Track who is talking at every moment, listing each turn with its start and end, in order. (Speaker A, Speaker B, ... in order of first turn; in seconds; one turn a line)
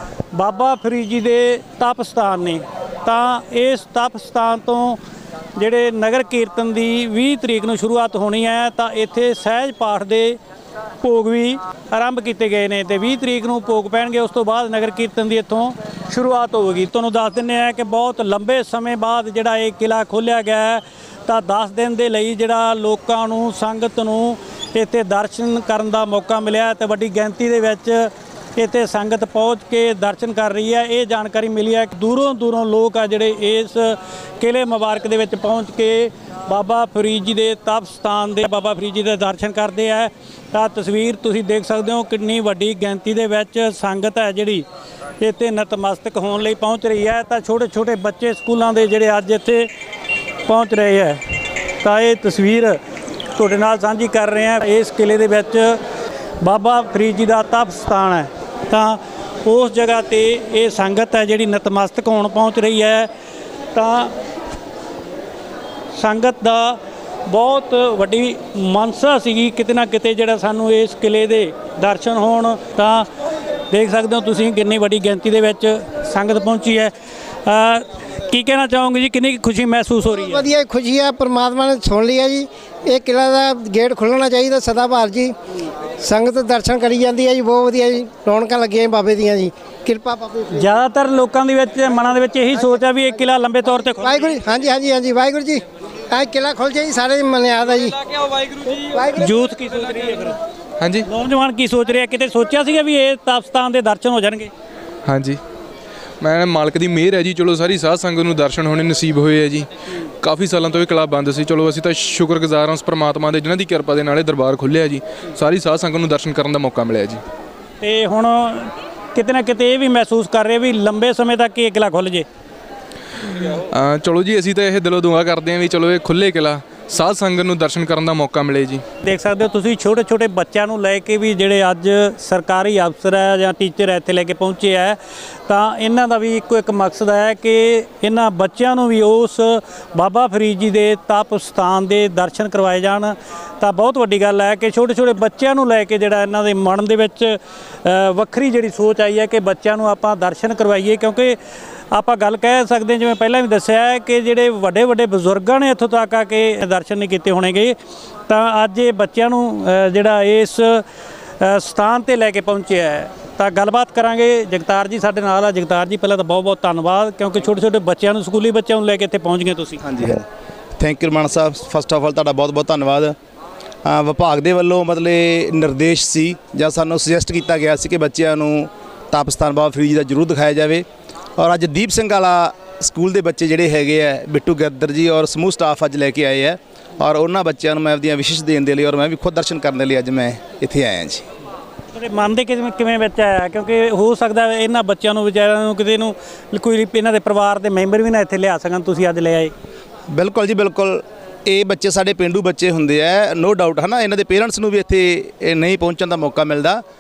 Speaker A: 0.3-5.0
Speaker A: 5.6-10.4
Speaker A: 11.0-44.6
Speaker A: 45.2-49.7
Speaker A: 50.5-51.2
Speaker A: 51.8-52.8
Speaker A: 53.4-55.8
Speaker A: 56.4-63.1
Speaker A: 63.7-64.1
Speaker A: 66.0-73.1
Speaker A: 73.7-76.9
Speaker A: 77.5-80.5
Speaker B: 80.3-85.3
Speaker B: 86.0-90.6
Speaker A: 90.5-94.4
Speaker B: 94.1-98.0
Speaker A: 99.1-100.4
Speaker C: 100.8-101.1
Speaker A: 101.0-104.5
Speaker C: 105.1-105.4
Speaker C: 106.2-109.7
Speaker C: 110.2-117.2
Speaker A: 117.8-122.3
Speaker C: 123.3-128.8
Speaker A: 129.0-151.4
Speaker A: 151.9-157.8
Speaker A: 158.3-160.8
Speaker A: 161.4-169.8
Speaker D: 169.8-170.2
Speaker D: 170.8-173.2
Speaker D: 173.8-180.8
Speaker D: 181.4-191.2
Speaker A: 191.9-199.5
Speaker D: 200.1-206.8